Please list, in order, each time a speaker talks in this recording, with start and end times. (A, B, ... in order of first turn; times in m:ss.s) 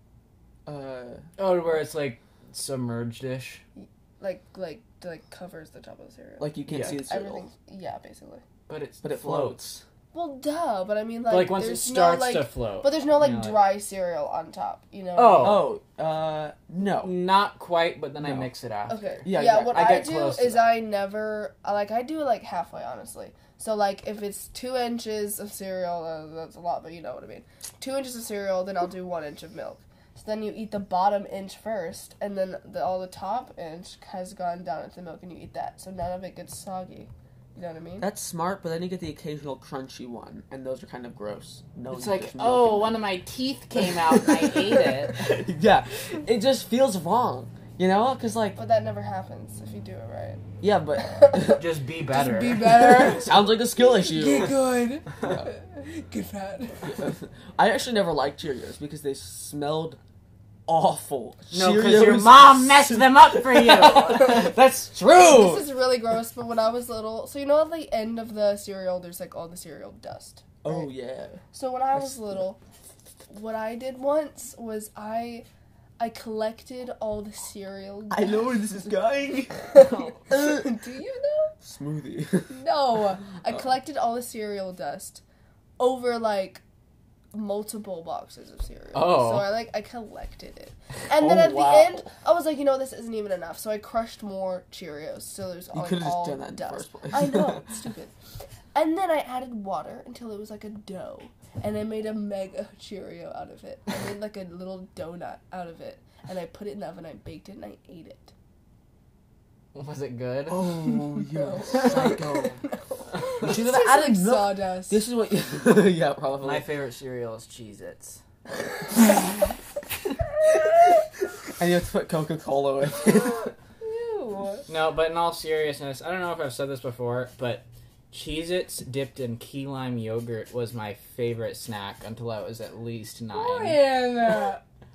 0:00.7-0:01.3 A
0:01.4-0:03.6 B
0:03.8-0:08.4 C
0:06.4-0:07.5 A
0:06.7-0:07.0 B
0:08.7-0:09.8 B
0:09.0-0:09.6 A
0:10.1-0:15.6 C
0:11.3-0:13.7 B
0:15.2-0:15.7 B
0:15.4-0:17.2 A
0:17.0-0:20.8 B
0:18.2-0:18.5 A
0:18.9-0:38.1 C
0:19.2-0:20.1 A
0:38.0-0:43.0 A
0:41.9-0:45.3 B
0:43.8-0:48.6 A
0:48.6-0:50.4 C
0:50.6-0:51.6 A
0:51.0-0:57.1 C
0:51.5-0:53.0 B
0:52.7-0:54.6 A
0:55.2-0:55.5 A
0:56.8-1:00.0 A
1:00.7-1:05.7 A
1:01.5-1:04.5 B
1:05.2-1:10.9 C
1:10.6-1:11.4 A
1:11.5-1:12.6 C
1:13.3-1:15.5 C
1:16.0-1:18.5 C
1:18.1-1:20.7 A
1:19.7-1:21.6 C
1:21.6-1:22.5 A
1:22.5-1:25.2 C
1:25.8-1:26.6 C
1:27.3-1:38.1 C
1:28.9-1:29.6 B
1:31.1-1:32.1 A
1:35.7-1:37.7 A
1:38.8-1:48.3 C
1:49.7-1:50.7 B
1:50.5-1:52.6 A
1:50.9-1:55.0 C
1:51.8-1:52.2 B
1:53.4-1:56.7 A
1:56.4-1:58.2 B
2:01.6-2:03.5 A
2:03.8-2:04.7 C
2:04.7-2:13.8 B
2:13.3-2:14.6 C